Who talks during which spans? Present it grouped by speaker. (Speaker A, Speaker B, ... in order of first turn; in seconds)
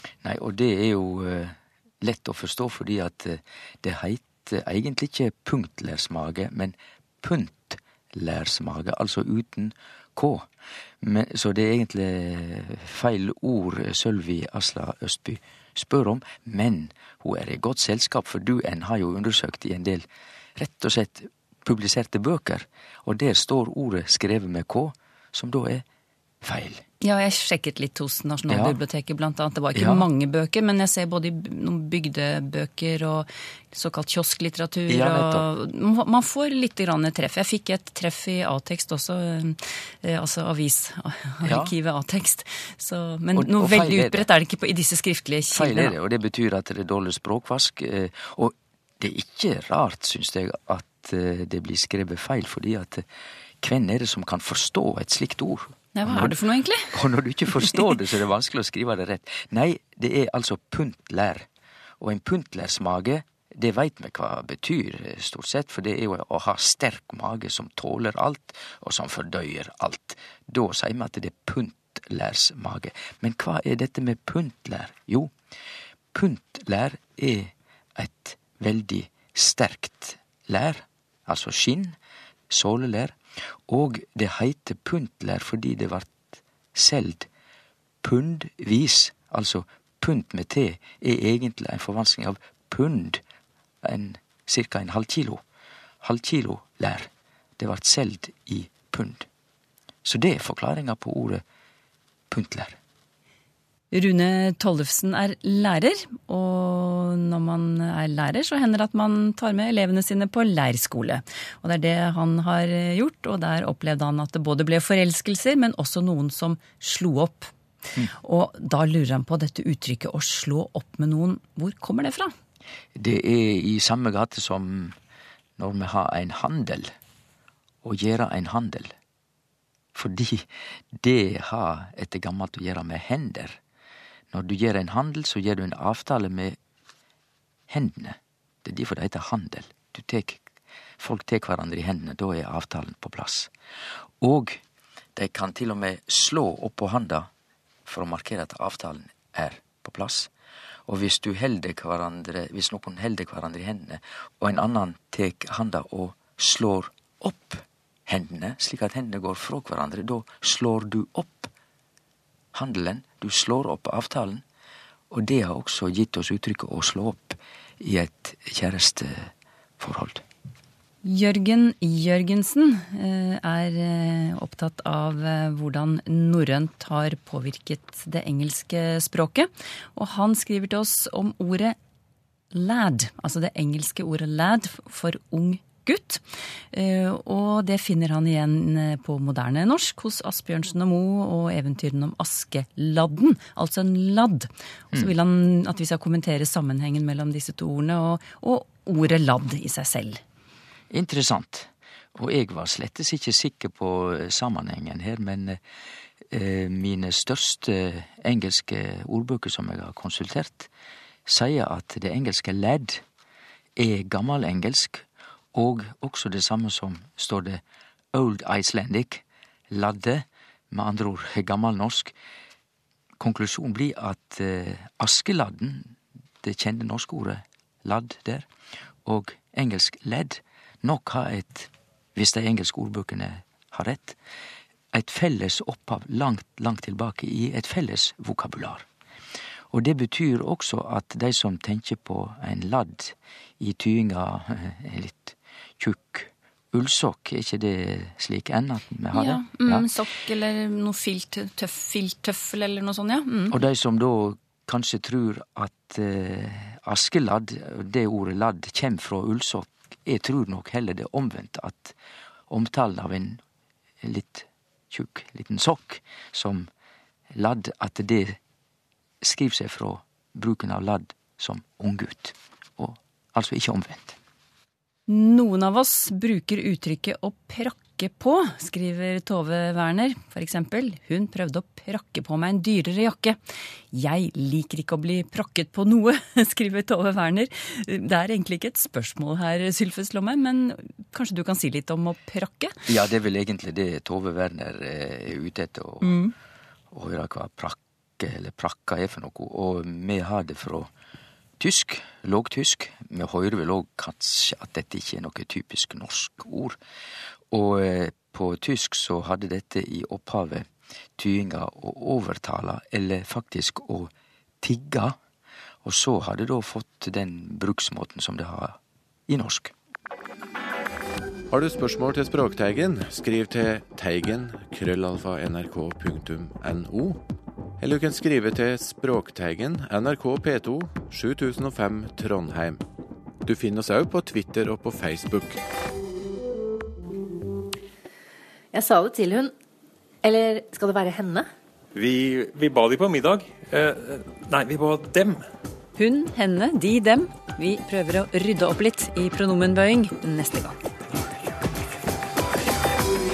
Speaker A: 0.2-10.5, 11.0-25.8, 26.4-26.8, 28.5-28.8, 29.7-30.1, 34.9-35.5, 41.4-41.7, 43.3-44.3, 45.5-53.0, 53.6-56.4, 56.9-61.5, 62.0-75.3, 76.1-82.0, 82.5-87.3, 88.0-93.2, 93.8-95.4, 96.0-99.3, 100.0-101.4, 102.3-102.8, 122.9-125.0, 125.6-126.9, 127.8-128.9, 129.9-133.6, 134.3-136.6, 137.7-140.4, 141.0-143.5, 144.2-144.6, 145.1-147.3, 147.8-150.3, 150.8-161.5, 162.5-164.4, 165.1-170.2, 200.9-205.6, 206.3-210.7, 211.2-213.0, 213.8-217.6, 218.1-222.1, 223.2-228.5, 229.0-234.2, 234.9-238.9, 239.7-249.9, 253.5-261.9, 262.5-263.4, 264.0-266.7, 267.3-268.4, 269.2-274.2, 292.9-296.2, 296.9-300.9, 301.6-306.8, 307.5-315.2, 315.8-319.7
Speaker B: 27.0-45.9, 55.9-57.9, 103.9-117.5, 118.2-122.3, 171.0-181.8, 182.5-200.2, 249.1-253.6, 275.1-283.4, 283.9-292.7, 296.0-296.3, 346.0-350.8
Speaker C: 321.5-327.2, 327.8-332.8, 333.4-335.6
Speaker D: 338.7-339.5, 340.2-341.4
Speaker E: 341.9-345.4